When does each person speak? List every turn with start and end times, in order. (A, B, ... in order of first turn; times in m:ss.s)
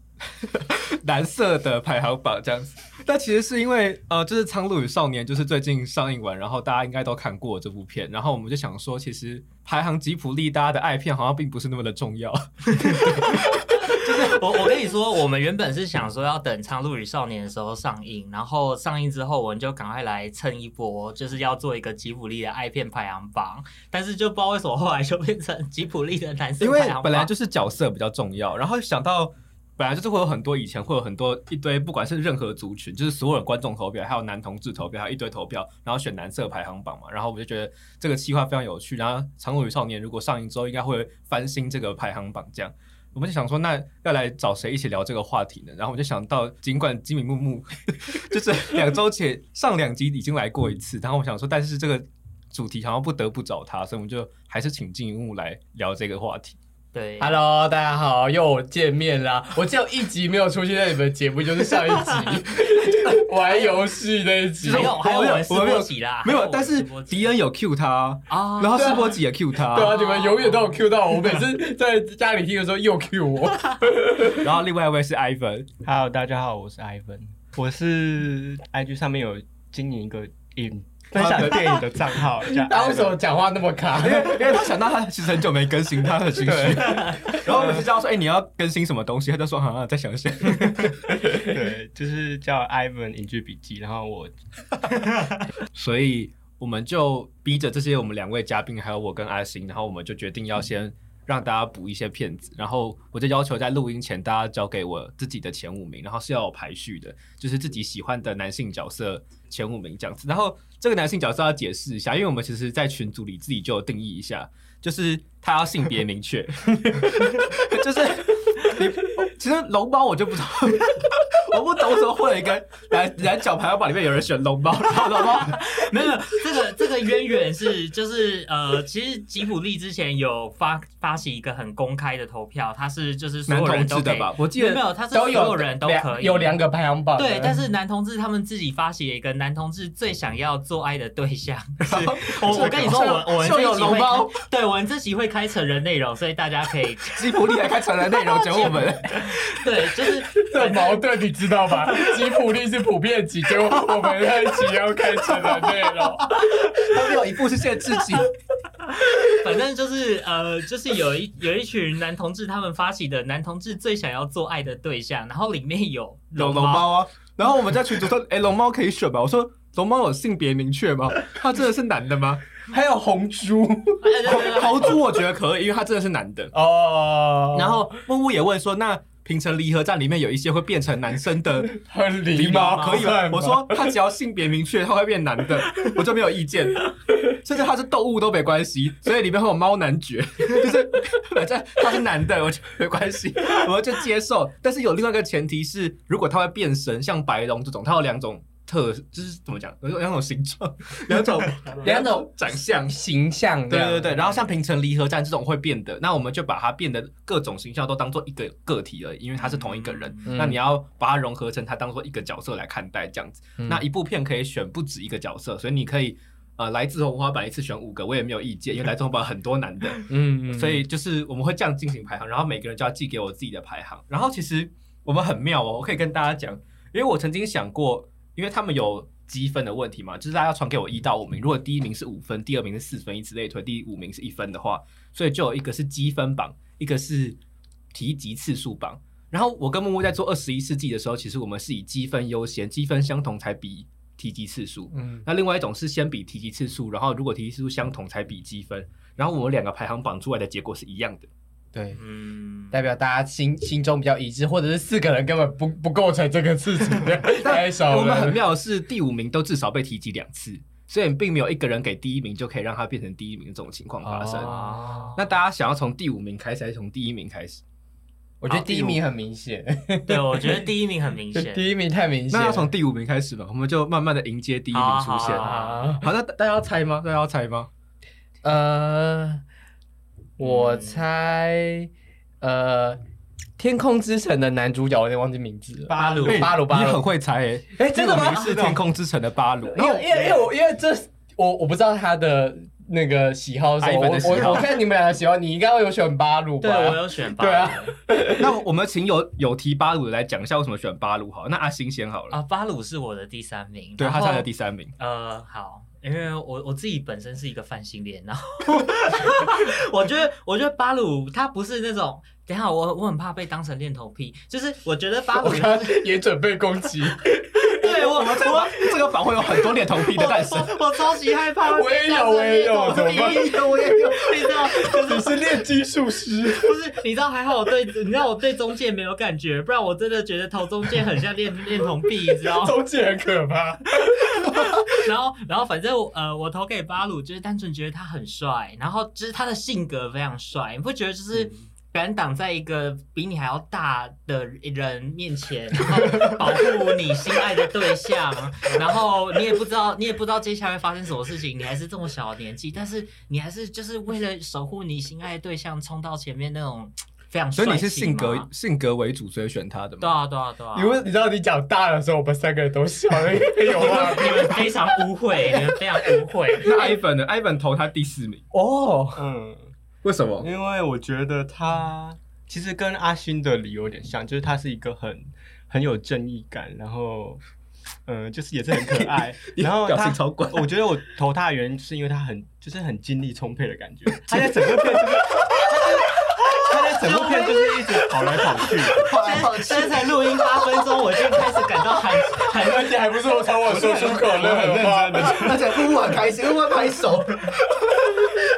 0:00.4-0:14.4 A
0:12.9-0:13.2 B
0:13.8-0:27.3 B
0:26.6-0:56.6 A
0:56.9-0:57.4 B
0:57.2-1:04.9 C
1:04.6-1:10.0 A
1:04.6-1:07.3 B
1:08.3-1:10.8 B
1:08.8-1:09.1 C
1:09.7-1:14.5 C
1:14.3-1:15.7 A
1:15.8-1:23.2 D
1:21.1-1:21.9 A
1:22.5-1:24.7 C
1:24.0-1:31.2 A
1:26.4-1:27.5 C
1:31.2-1:34.3 D
1:35.7-2:05.6 A
2:05.1-2:16.6 B
2:13.5-2:14.8 A
2:15.1-2:17.6 C
2:17.2-2:27.4 B
2:21.8-2:24.4 A
2:22.5-2:23.2 C
2:27.1-2:29.7 A
2:28.3-2:31.0 B
2:30.3-2:36.6 C
2:35.3-2:36.1 A
2:36.6-2:38.3 A
2:39.1-2:47.0 B
2:46.4-2:52.4 A
2:52.7-2:54.1 C
2:54.0-2:55.0 B
2:54.2-2:56.5 A
2:56.5-2:57.8 C
2:57.5-3:01.8 A
3:01.8-3:03.9 C
3:02.3-3:23.0 A
3:21.8-3:24.2 C
3:23.7-3:57.4 A
3:29.4-3:30.3 B
3:30.2-3:30.6 C
3:33.6-3:33.8 C
3:40.1-3:40.8 C
3:57.9-4:11.3 A
4:04.9-4:05.2 C
4:11.7-4:12.0 C
4:12.0-4:12.8 B
4:12.7-4:18.4 C
4:17.3-4:24.6 A
4:24.0-4:25.1 C
4:24.4-4:25.2 B
4:25.1-4:27.6 A
4:28.4-4:30.7 C
4:28.5-4:29.0 B
4:30.0-4:31.7 B
4:31.3-4:32.7 C
4:32.3-4:37.7 A
4:34.7-4:35.9 B
4:35.4-4:36.0 C
4:38.4-4:39.4 C
4:40.4-4:41.9 C
4:40.4-4:41.0 B
4:42.4-4:43.0 C
4:43.6-4:47.0 C
4:45.8-4:46.6 D
4:46.0-4:50.0 A
4:47.7-4:48.8 C
4:49.7-4:58.5 C
4:53.8-4:54.8 A
4:56.6-4:57.9 B
4:58.3-5:02.4 A
5:02.3-5:15.9 B
5:04.0-5:04.9 A
5:15.4-5:17.3 C
5:17.5-5:25.4 B
5:17.8-5:20.7 A
5:21.7-5:26.8 C
5:23.0-5:24.1 A
5:26.6-5:32.8 B
5:32.5-5:35.0 C
5:34.0-5:58.5 B
5:57.5-6:00.2 A
6:00.0-6:01.0 B
6:00.7-6:04.7 C
6:03.7-6:06.8 B
6:06.6-6:08.5 A
6:08.5-6:09.2 C
6:09.1-6:09.7 D
6:10.0-6:10.5 A
6:10.4-6:17.4 D
6:18.0-6:29.1 D
6:19.5-6:20.7 A
6:28.9-6:30.1 A
6:29.1-6:33.0 B
6:32.5-6:35.5 C
6:33.6-6:35.9 D
6:35.2-6:38.3 A